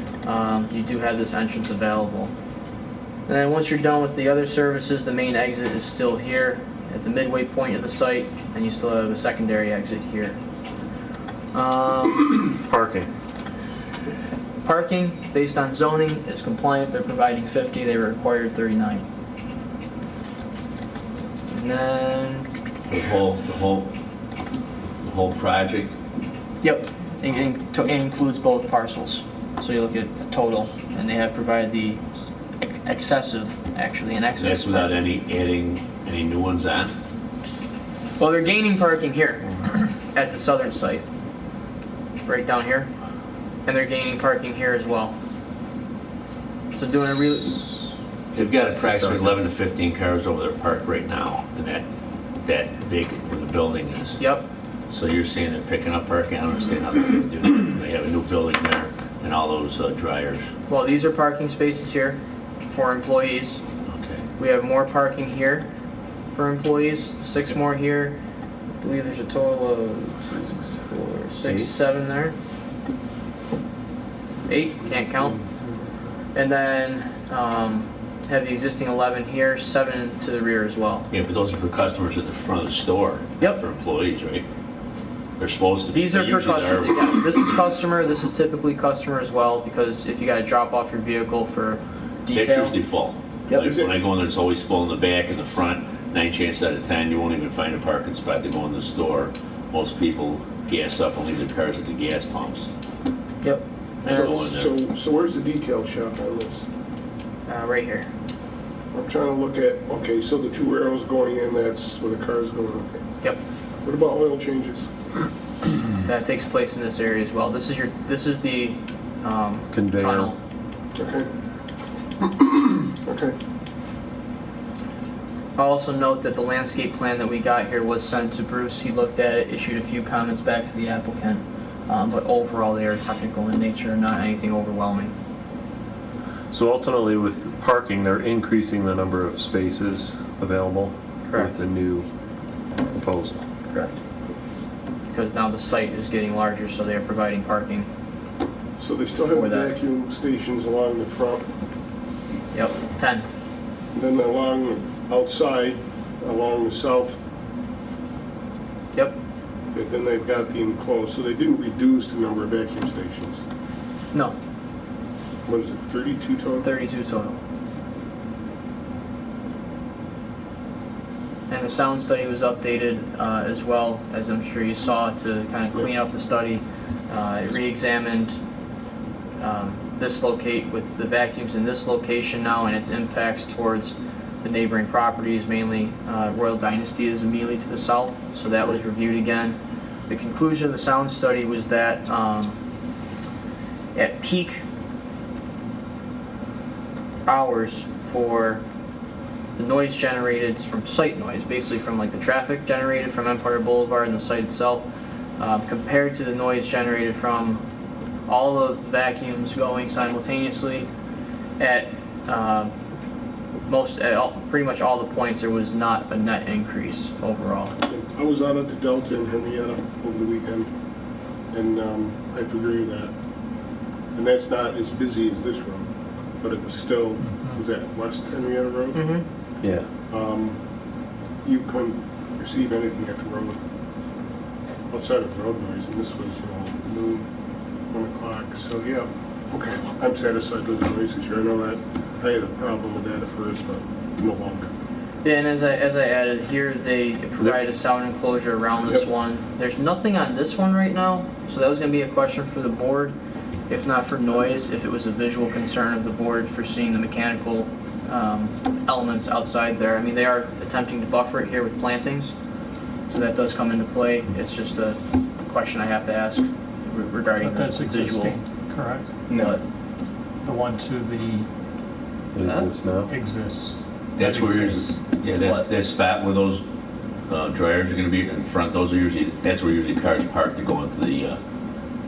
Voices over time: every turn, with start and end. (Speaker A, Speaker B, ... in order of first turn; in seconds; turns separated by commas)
Speaker A: 0.2-2.3, Speaker A: 3.3-10.4, Speaker A: 11.5-12.4, Speaker B: 12.7-13.1, Speaker A: 14.6-19.1, Speaker A: 21.5-22.5, Speaker C: 22.9-23.9, Speaker C: 25.0-25.9, Speaker A: 26.6-34.9, Speaker C: 34.4-36.9, Speaker A: 38.2-41.0, Speaker A: 42.2-42.9, Speaker A: 43.6-45.1, Speaker A: 46.7-47.6, Speaker C: 48.3-51.9, Speaker C: 52.4-54.2, Speaker A: 54.2-54.5, Speaker C: 54.9-60.5, Speaker A: 60.7-63.6, Speaker C: 63.9-64.2, Speaker A: 64.4-65.7, Speaker A: 66.3-68.2, Speaker A: 68.8-72.3, Speaker A: 74.5-75.4, Speaker A: 76.3-81.1, Speaker C: 81.1-84.5, Speaker C: 85.4-87.3, Speaker A: 85.9-92.8, Speaker C: 92.3-102.7, Speaker D: 93.5-93.9, Speaker A: 103.4-104.4, Speaker C: 104.0-104.7, Speaker D: 104.0-106.6, Speaker A: 107.5-108.1, Speaker D: 108.9-113.0, Speaker D: 113.8-114.9, Speaker A: 116.0-120.4, Speaker B: 119.7-120.3, Speaker D: 121.0-121.3, Speaker D: 122.2-123.3, Speaker A: 125.6-135.1, Speaker B: 136.5-142.1, Speaker A: 141.2-141.6, Speaker B: 142.9-143.4, Speaker A: 143.7-144.0, Speaker A: 145.1-147.9, Speaker D: 148.8-151.4, Speaker A: 149.2-149.7, Speaker A: 152.5-153.2, Speaker D: 153.9-157.2, Speaker D: 159.7-163.4, Speaker D: 165.4-166.7, Speaker A: 166.6-167.4, Speaker A: 171.5-178.4, Speaker A: 179.4-189.6, Speaker A: 190.1-192.6, Speaker A: 193.9-194.6, Speaker A: 197.2-198.6, Speaker A: 199.6-204.9, Speaker A: 205.4-207.6, Speaker A: 208.3-210.9, Speaker A: 211.6-212.7, Speaker A: 213.7-217.7, Speaker D: 217.8-220.7, Speaker D: 221.5-223.1, Speaker D: 224.1-225.9, Speaker D: 226.4-229.0, Speaker E: 227.2-227.6, Speaker A: 228.9-229.2, Speaker B: 229.6-229.9, Speaker D: 230.1-230.6, Speaker D: 231.4-233.6, Speaker D: 234.9-237.2, Speaker D: 237.9-244.7, Speaker A: 245.2-253.1, Speaker A: 253.7-262.3, Speaker A: 263.1-268.4, Speaker E: 267.4-269.2, Speaker A: 269.3-269.6, Speaker E: 270.4-271.5, Speaker B: 272.3-273.1, Speaker E: 273.1-275.0, Speaker C: 274.1-276.6, Speaker A: 275.4-275.6, Speaker C: 277.3-281.4